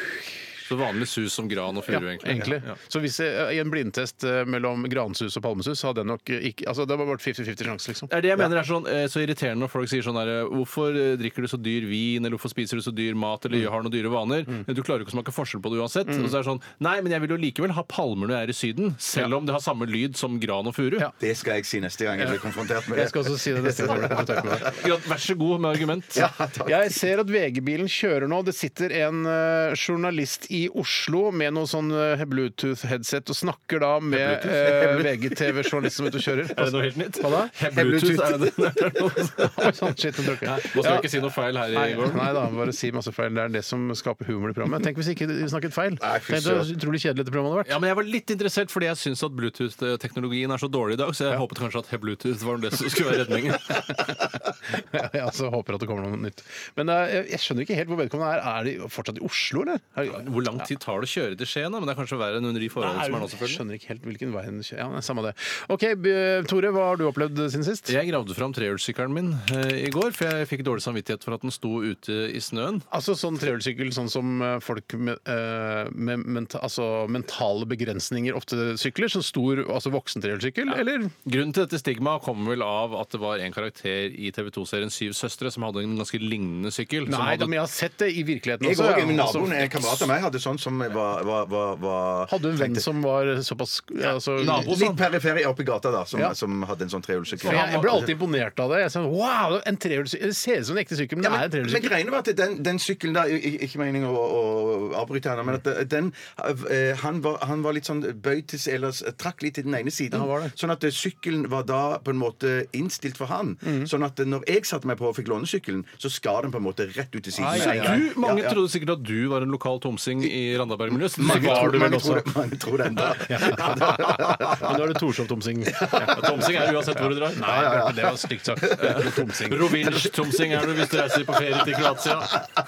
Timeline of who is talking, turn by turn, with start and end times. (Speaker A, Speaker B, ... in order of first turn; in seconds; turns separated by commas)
Speaker A: 0.7-2.7, Speaker B: 1.9-8.1, Speaker A: 8.1-21.1, Speaker B: 16.1-16.3, Speaker C: 21.2-24.8, Speaker B: 22.9-24.7, Speaker A: 24.6-26.2, Speaker C: 26.1-27.0, Speaker B: 26.6-38.3, Speaker A: 34.2-35.0, Speaker A: 36.5-39.8, Speaker B: 39.4-41.0, Speaker A: 40.4-42.5, Speaker B: 41.7-47.7, Speaker C: 46.0-46.7, Speaker A: 47.6-54.0, Speaker B: 54.7-60.2, Speaker A: 60.1-63.6, Speaker B: 62.8-67.9, Speaker A: 67.9-72.8, Speaker B: 72.9-81.1, Speaker A: 80.7-87.5, Speaker B: 87.1-90.0, Speaker C: 88.6-92.9, Speaker B: 92.3-94.7, Speaker C: 94.4-98.1, Speaker A: 94.4-95.0, Speaker A: 97.4-98.0, Speaker B: 97.4-101.9, Speaker C: 101.2-118.6, Speaker B: 110.1-110.5, Speaker B: 113.6-113.9, Speaker B: 117.3-118.0, Speaker A: 117.5-121.9, Speaker C: 121.1-124.8, Speaker B: 121.2-122.3, Speaker B: 123.2-126.2, Speaker C: 125.8-126.7, Speaker A: 126.1-127.7, Speaker B: 127.3-129.9, Speaker C: 127.4-129.1, Speaker A: 128.8-132.4, Speaker C: 130.5-132.2